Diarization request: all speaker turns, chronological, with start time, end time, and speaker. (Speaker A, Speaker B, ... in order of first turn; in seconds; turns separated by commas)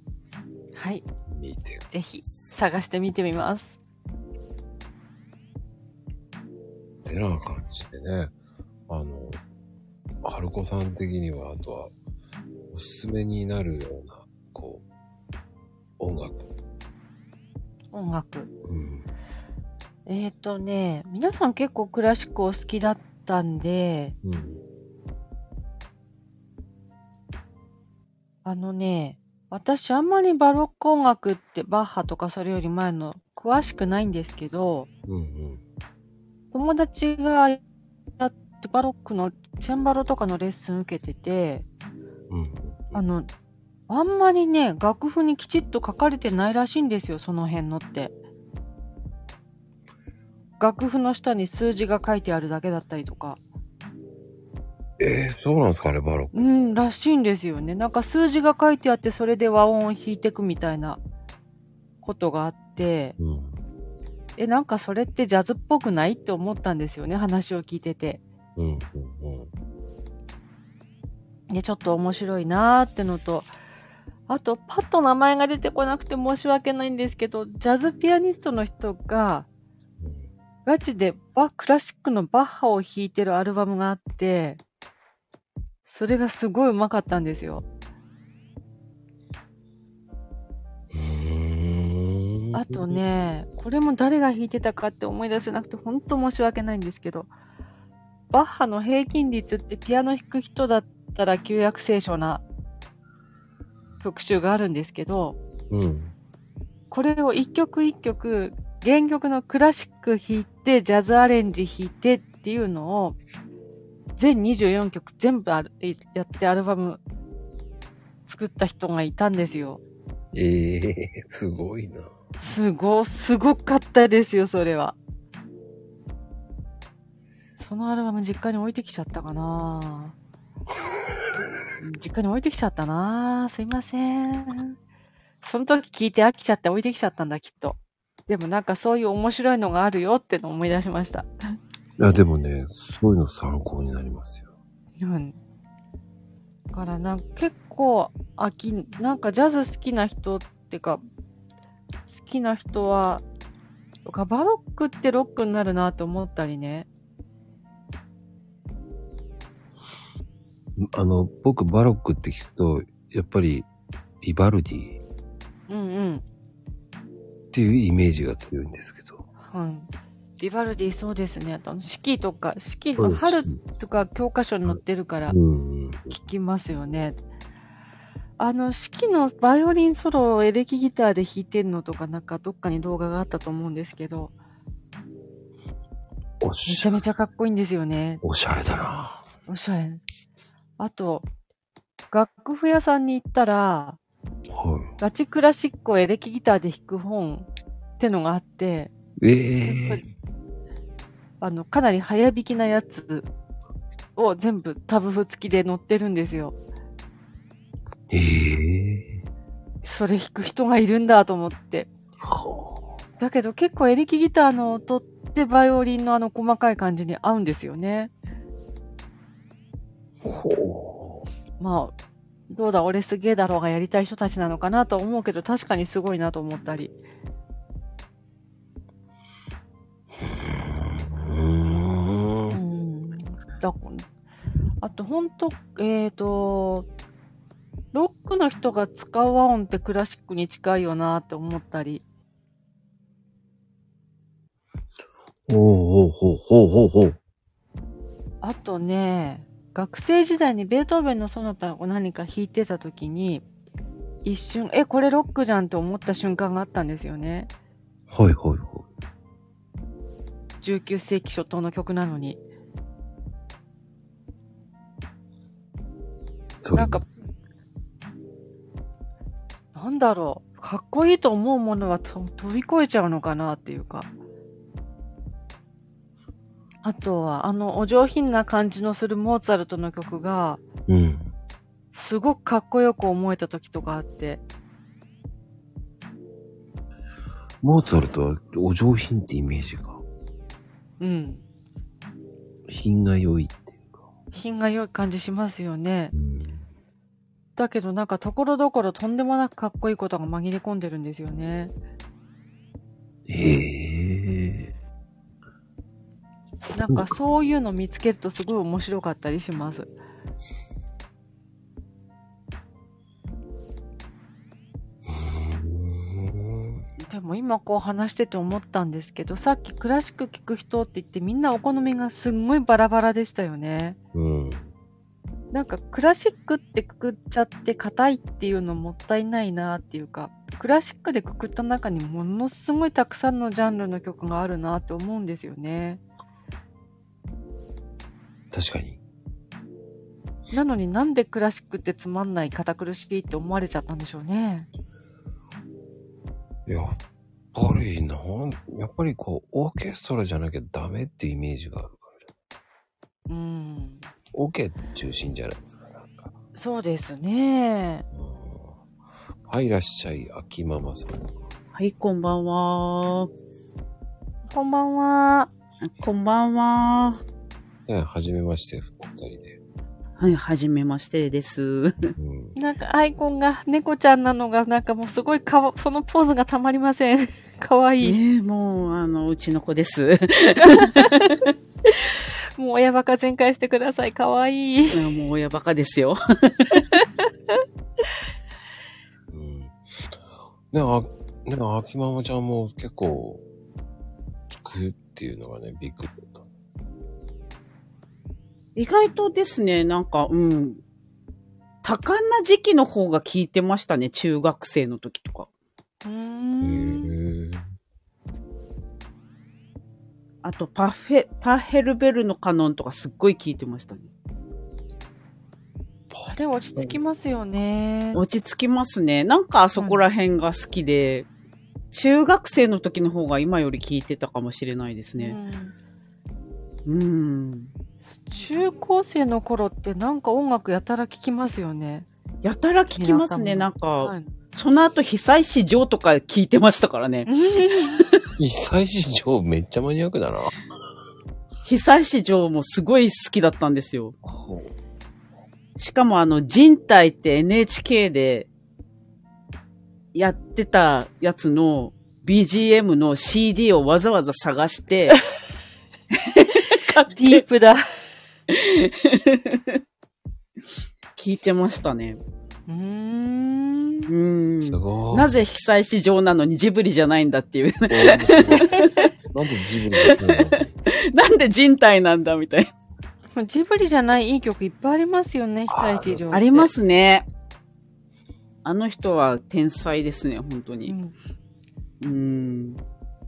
Speaker A: 0.8-1.1, Speaker B: 1.3-2.6, Speaker A: 1.9-3.8, Speaker B: 7.0-8.3, Speaker B: 8.9-9.4, Speaker B: 10.2-11.9, Speaker B: 12.7-14.8, Speaker B: 16.0-16.5, Speaker A: 17.9-18.5, Speaker B: 18.6-19.1, Speaker A: 20.1-24.2, Speaker B: 24.2-24.6, Speaker A: 28.4-34.9, Speaker B: 35.1-35.6, Speaker A: 36.5-37.6, Speaker A: 38.2-41.7, Speaker B: 42.3-43.0, Speaker A: 42.9-43.3, Speaker A: 43.9-48.1, Speaker A: 50.6-53.4, Speaker B: 55.0-56.5, Speaker A: 56.3-61.0, Speaker A: 62.0-63.2, Speaker B: 63.2-63.6, Speaker A: 64.4-68.2, Speaker B: 68.6-69.5, Speaker A: 71.5-73.5, Speaker A: 74.3-79.5, Speaker B: 80.0-80.3, Speaker A: 80.7-84.6, Speaker A: 85.9-87.7, Speaker B: 90.9-93.0, Speaker A: 92.5-97.3, Speaker A: 98.3-102.4, Speaker A: 104.0-105.4, Speaker B: 105.7-106.1, Speaker A: 106.9-113.2, Speaker A: 114.2-117.0, Speaker A: 118.3-119.8, Speaker B: 120.3-122.1, Speaker A: 122.4-125.0, Speaker A: 127.6-130.2, Speaker A: 131.8-134.8, Speaker A: 135.4-137.8, Speaker A: 138.3-141.3, Speaker B: 142.0-144.5, Speaker A: 145.0-145.4, Speaker A: 146.7-151.0, Speaker A: 152.1-153.2, Speaker A: 154.1-156.9, Speaker B: 160.8-163.7, Speaker B: 164.2-165.0, Speaker A: 165.7-166.2, Speaker B: 167.5-169.3, Speaker A: 169.4-175.4, Speaker B: 173.0-173.6, Speaker B: 174.7-176.3, Speaker A: 176.1-177.2, Speaker A: 178.4-184.3, Speaker B: 186.4-187.0, Speaker A: 186.7-188.2, Speaker B: 188.2-189.2, Speaker A: 189.5-190.0, Speaker A: 190.8-191.3, Speaker A: 192.1-194.0, Speaker B: 194.5-194.9, Speaker A: 195.0-197.5, Speaker A: 198.0-198.9, Speaker B: 199.2-200.0, Speaker A: 199.7-200.0, Speaker A: 201.4-203.3, Speaker A: 204.2-206.6, Speaker B: 208.1-209.2, Speaker A: 209.8-211.9, Speaker B: 212.2-212.9, Speaker A: 213.2-218.1, Speaker B: 220.2-221.3, Speaker A: 221.6-221.9, Speaker A: 222.5-226.9, Speaker B: 230.2-232.6, Speaker A: 232.5-234.1, Speaker A: 234.8-236.9, Speaker A: 237.9-242.0, Speaker B: 245.5-247.2, Speaker A: 248.4-253.4, Speaker A: 254.2-257.5, Speaker B: 258.1-258.9, Speaker A: 260.6-262.4, Speaker B: 266.6-267.0, Speaker A: 266.7-267.1, Speaker A: 269.8-274.1, Speaker A: 276.8-280.6, Speaker B: 280.9-281.3, Speaker A: 281.9-284.4, Speaker B: 287.6-290.0, Speaker A: 291.0-291.4, Speaker B: 292.7-294.0, Speaker A: 294.3-296.1, Speaker B: 296.1-296.6, Speaker A: 297.6-301.7, Speaker B: 303.3-304.7, Speaker A: 306.7-309.9, Speaker B: 315.1-316.9, Speaker A: 317.0-324.0, Speaker B: 324.1-324.7, Speaker A: 325.5-336.0, Speaker B: 338.5-339.0, Speaker A: 340.5-344.7, Speaker B: 346.7-347.0, Speaker B: 347.5-352.2, Speaker A: 353.3-354.1, Speaker B: 354.3-356.3, Speaker A: 356.6-358.1, Speaker B: 358.1-358.8, Speaker B: 359.5-361.5, Speaker C: 361.7-363.3, Speaker A: 364.5-365.5, Speaker C: 365.9-367.2, Speaker B: 367.9-369.6, Speaker C: 370.2-372.1, Speaker B: 372.2-372.6, Speaker A: 372.6-378.2, Speaker C: 378.0-381.3, Speaker A: 380.7-381.3, Speaker A: 381.9-385.0, Speaker C: 384.9-386.8, Speaker A: 386.8-387.1, Speaker B: 389.3-389.8, Speaker B: 390.7-393.4, Speaker B: 394.5-396.5, Speaker C: 398.8-400.8, Speaker C: 401.8-405.5, Speaker A: 406.1-407.1, Speaker B: 406.6-407.7, Speaker C: 410.4-414.1, Speaker B: 416.1-416.9, Speaker A: 416.3-418.2, Speaker C: 418.1-421.3, Speaker A: 419.8-420.0, Speaker C: 421.9-425.4, Speaker A: 425.2-425.7, Speaker C: 426.9-427.7, Speaker A: 428.1-432.1, Speaker C: 432.4-438.2, Speaker A: 432.9-434.3, Speaker A: 437.3-438.0, Speaker B: 438.4-440.5, Speaker C: 441.6-444.2, Speaker B: 444.3-444.7, Speaker C: 445.8-448.5, Speaker C: 450.1-455.2, Speaker C: 456.1-457.4, Speaker A: 457.1-457.8, Speaker C: 458.5-459.8, Speaker C: 461.2-462.2, Speaker A: 462.7-464.1, Speaker C: 464.1-469.1, Speaker B: 464.6-465.4, Speaker B: 467.9-468.7, Speaker B: 469.3-470.7, Speaker C: 470.0-472.7, Speaker A: 473.4-476.7, Speaker B: 475.7-476.2, Speaker C: 476.3-477.3, Speaker C: 478.6-480.9, Speaker A: 480.9-481.1, Speaker C: 482.0-482.8